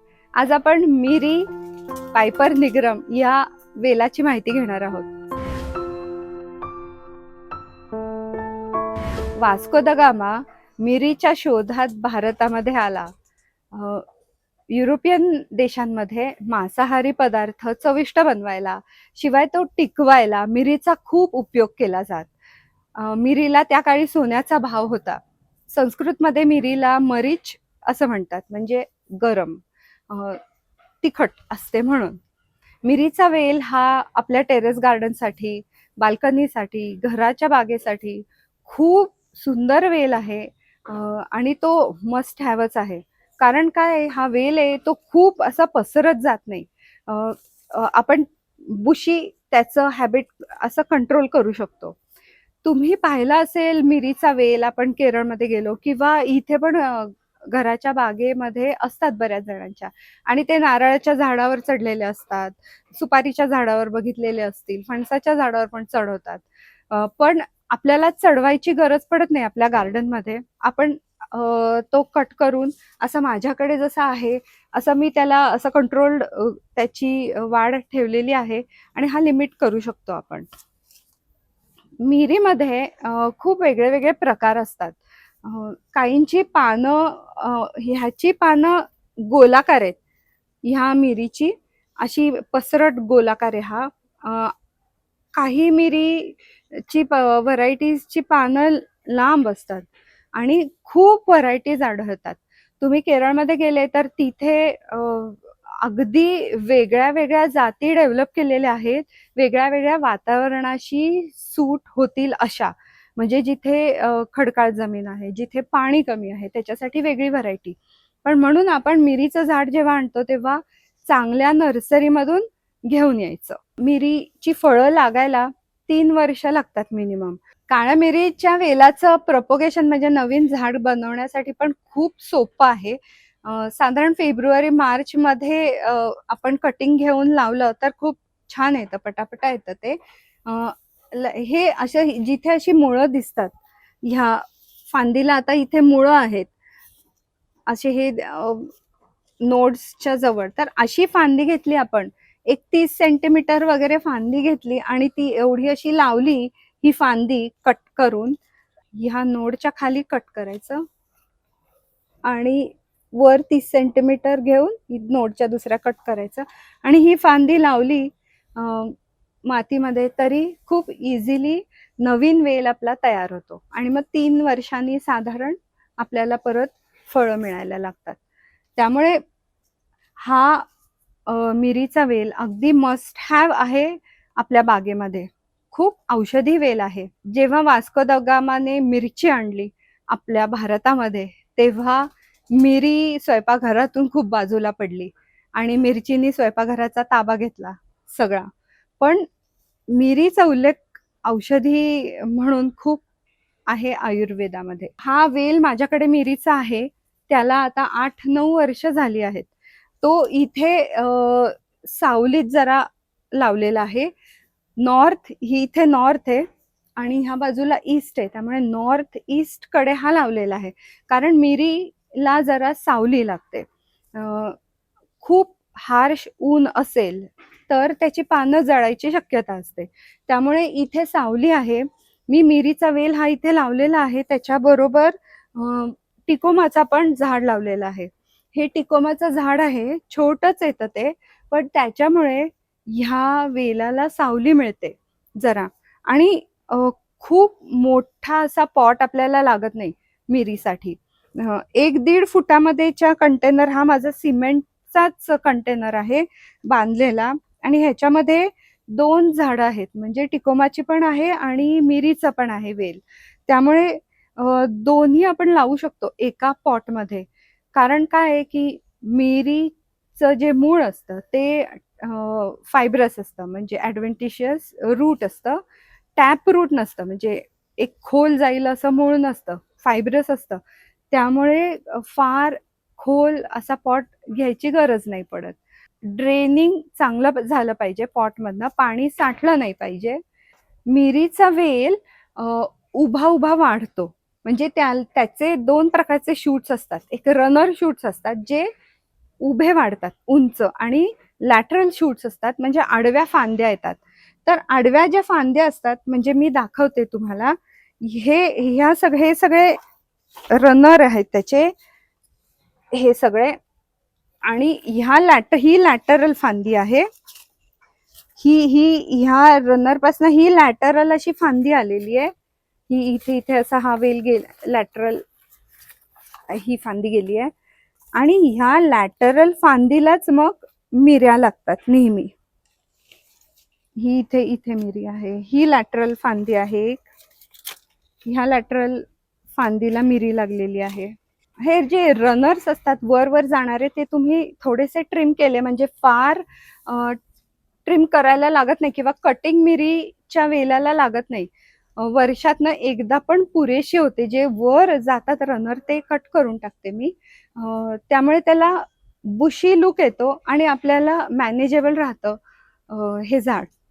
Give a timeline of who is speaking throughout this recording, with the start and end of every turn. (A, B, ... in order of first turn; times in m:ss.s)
0:00.4-0:01.5 A
0:02.1-0:05.1 A
0:09.4-0:13.1 A
0:13.7-0:14.0 A
0:14.7-0:22.3 A
0:23.0-0:30.4 A
0:31.0-0:32.2 A
0:32.8-0:52.0 A
0:52.6-1:20.5 A
1:22.0-1:30.0 A
1:30.6-1:34.5 A
1:35.4-2:26.5 A
2:27.7-2:28.7 A
2:29.4-2:38.4 A
2:39.0-2:40.8 A
2:42.2-2:49.0 A
2:49.5-2:58.2 A
2:58.8-2:59.2 A
3:00.2-3:00.7 A
3:01.3-3:18.5 A
3:19.0-3:19.3 A
3:19.9-3:23.0 A
3:23.7-3:29.5 A
3:30.0-3:34.1 A
3:34.8-3:36.4 A
3:37.0-3:44.6 A
3:45.2-4:35.6 A
4:36.2-4:40.6 A
4:41.1-4:50.2 A
4:50.9-4:58.7 A
4:59.4-5:09.8 A
5:10.5-5:11.7 A
5:12.9-5:13.6 A
5:14.5-5:17.1 A
5:18.4-5:22.3 A
5:22.9-5:25.2 A
5:26.5-5:27.5 A
5:28.2-5:32.3 A
5:34.0-5:37.0 A
5:38.2-5:47.2 A
5:47.9-6:02.4 A
6:02.9-6:03.7 A